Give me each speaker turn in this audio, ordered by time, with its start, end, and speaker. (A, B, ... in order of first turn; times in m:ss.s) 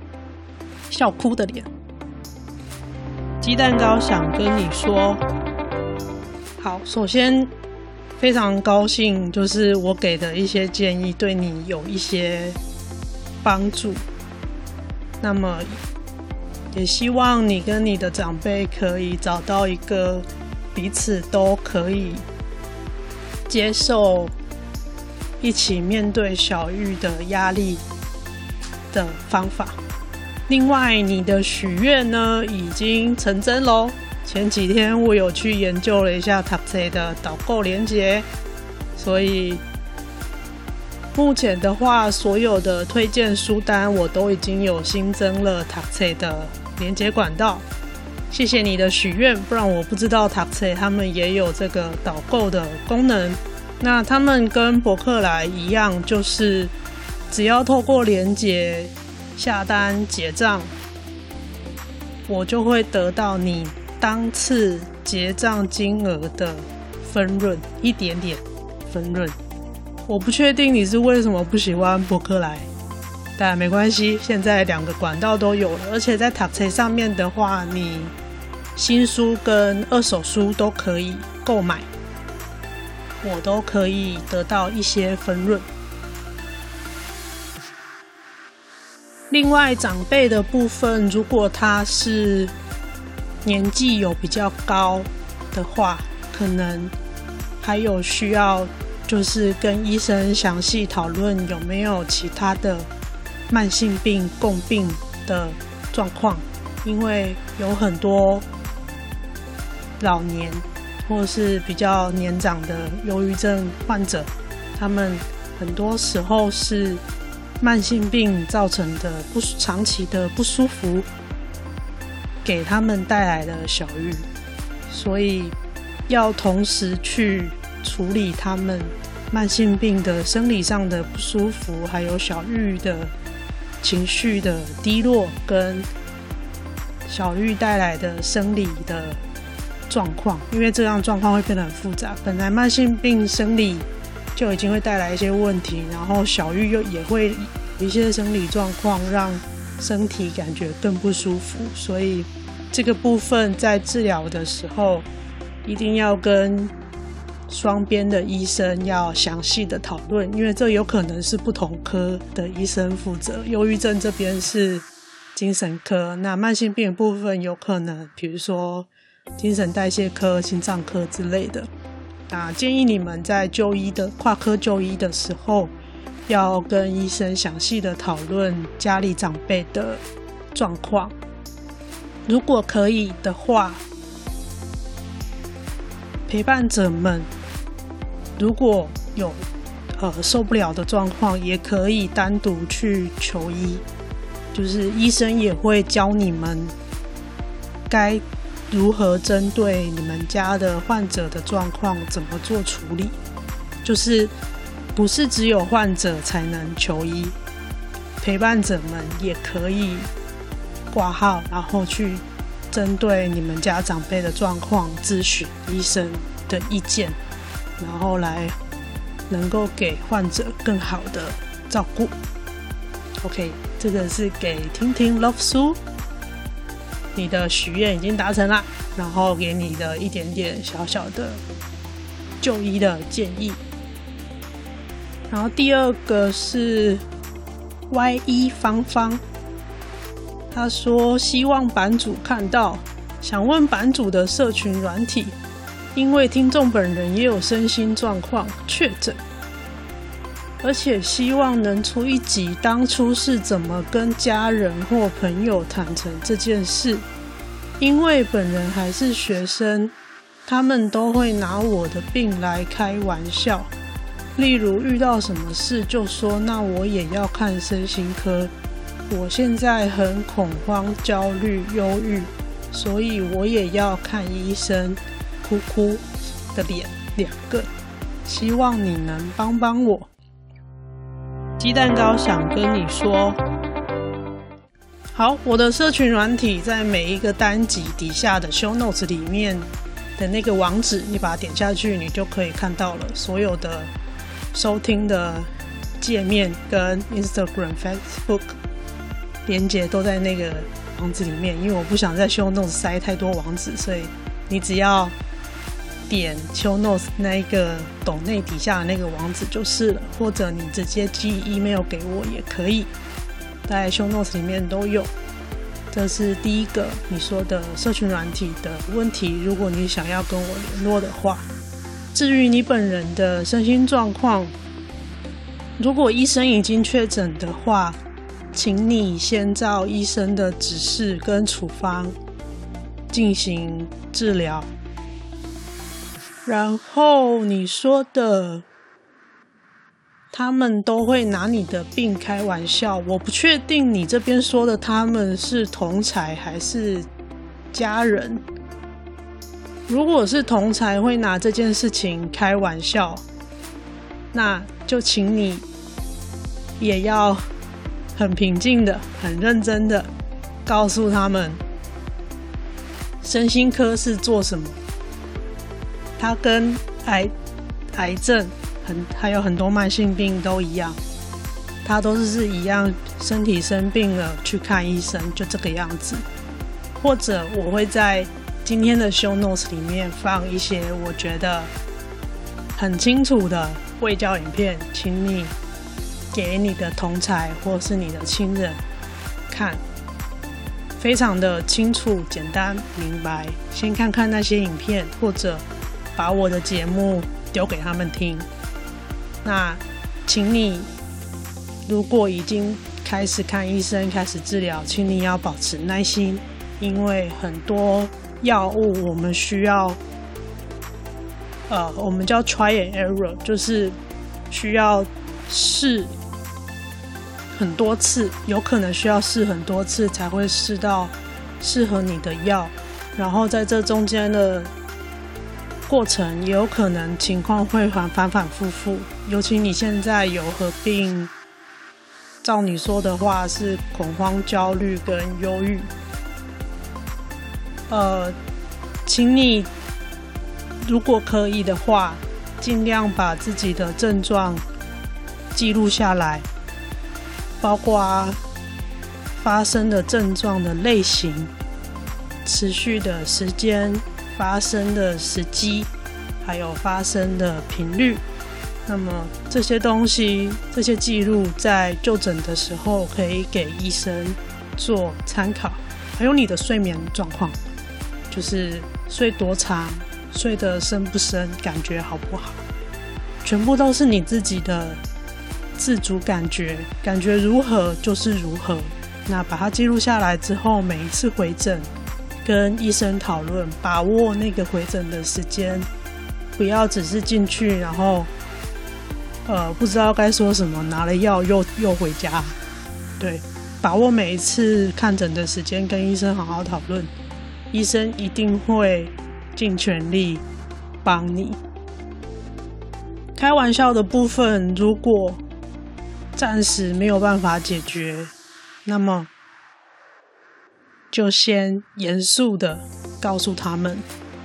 0:00.9-0:01.7 A
0:03.4-0:05.2 A
0:06.6-0:07.5 A
0:08.2-0:12.6 A
0:13.4-0:14.0 A
0:15.2-0:15.8 A
0:16.7-0:22.2 A
0:23.5-0:24.4 A
0:25.4-0:27.8 A
0:28.9-0:29.8 A
0:30.5-0:38.3 A
0:39.0-0:39.6 A
0:41.2-0:47.6 A
0:48.3-0:56.7 A
0:57.3-1:00.7 A
1:02.3-1:09.4 A
1:10.1-1:12.7 A
1:13.4-1:18.2 A
1:18.8-1:21.9 A
1:23.2-1:25.7 A
1:29.3-1:32.5 A
1:33.4-1:36.9 A
1:37.6-1:42.9 A
1:43.5-1:48.5 A
1:50.0-1:57.0 A
1:57.6-2:01.1 A
2:02.4-2:04.3 A
2:04.9-2:05.6 A
2:06.1-2:13.1 A
2:13.8-2:15.9 A
2:17.1-2:19.2 A
2:19.9-2:35.1 A
2:35.7-2:36.7 A
2:37.5-2:51.7 A
2:52.3-2:55.7 A
2:56.3-3:00.0 A
3:00.5-3:01.1 A
3:02.3-3:03.8 A
3:06.3-3:07.3 A
3:08.4-3:09.5 A
3:10.0-3:13.8 A
3:14.5-3:16.7 A
3:17.9-3:23.2 A
3:23.8-3:24.3 A
3:25.0-3:27.4 A
3:28.2-3:30.1 A
3:30.9-3:37.2 A
3:37.8-3:38.6 A
3:39.3-3:42.1 A
3:43.2-3:45.8 A
3:47.2-3:51.4 A
3:52.4-3:53.6 A
3:55.3-3:57.0 A
3:57.9-3:59.2 A
4:00.5-4:05.4 A
4:06.0-4:09.2 A
4:10.6-4:17.1 A
4:17.8-4:19.9 A
4:20.5-4:23.7 A
4:24.4-4:28.5 A
4:29.1-4:37.7 A
4:38.2-4:40.1 A
4:41.6-4:43.4 A
4:45.1-4:53.9 A
4:54.5-4:55.5 A
4:56.0-4:58.6 A
4:59.5-5:05.2 A
5:06.1-5:12.9 A
5:13.7-5:15.1 A
5:15.9-5:21.5 A
5:22.1-5:24.6 A
5:25.8-5:28.0 A
5:28.5-5:32.2 A
5:33.1-5:34.7 A
5:36.4-5:38.6 A
5:40.3-5:47.1 A
5:47.7-5:48.4 A
5:49.9-5:53.2 A
5:54.3-5:55.7 A
5:56.8-5:57.5 A
5:58.2-6:00.1 A
6:00.7-6:01.6 A
6:03.2-6:04.8 A
6:06.2-6:07.3 A
6:07.9-6:11.0 A
6:11.8-6:16.2 A
6:17.0-6:21.7 A
6:22.8-6:25.6 A
6:26.3-6:28.8 A
6:29.5-6:29.8 A
6:31.0-6:35.6 A
6:36.2-6:38.5 A
6:39.4-6:40.9 A
6:41.9-6:50.0 A
6:51.7-6:54.0 A
6:54.5-6:56.1 A
6:57.5-7:04.7 A
7:05.9-7:11.3 A
7:12.4-7:15.9 A
7:17.9-7:18.4 A
7:19.1-7:19.7 A
7:20.8-7:24.6 A
7:25.5-7:26.5 A
7:27.6-7:28.4 A
7:29.4-7:31.5 A
7:32.4-7:35.9 A
7:36.4-7:38.2 A
7:38.9-7:47.7 A
7:48.3-7:52.6 A
7:53.4-7:55.0 A
7:55.8-8:01.9 A
8:02.4-8:05.9 A
8:06.6-8:08.3 A
8:09.5-8:12.6 A
8:13.2-8:17.1 A
8:17.7-8:20.4 A
8:21.0-8:21.6 A
8:23.4-8:25.4 A
8:26.4-8:28.3 A
8:28.8-8:29.3 A
8:31.1-8:34.0 A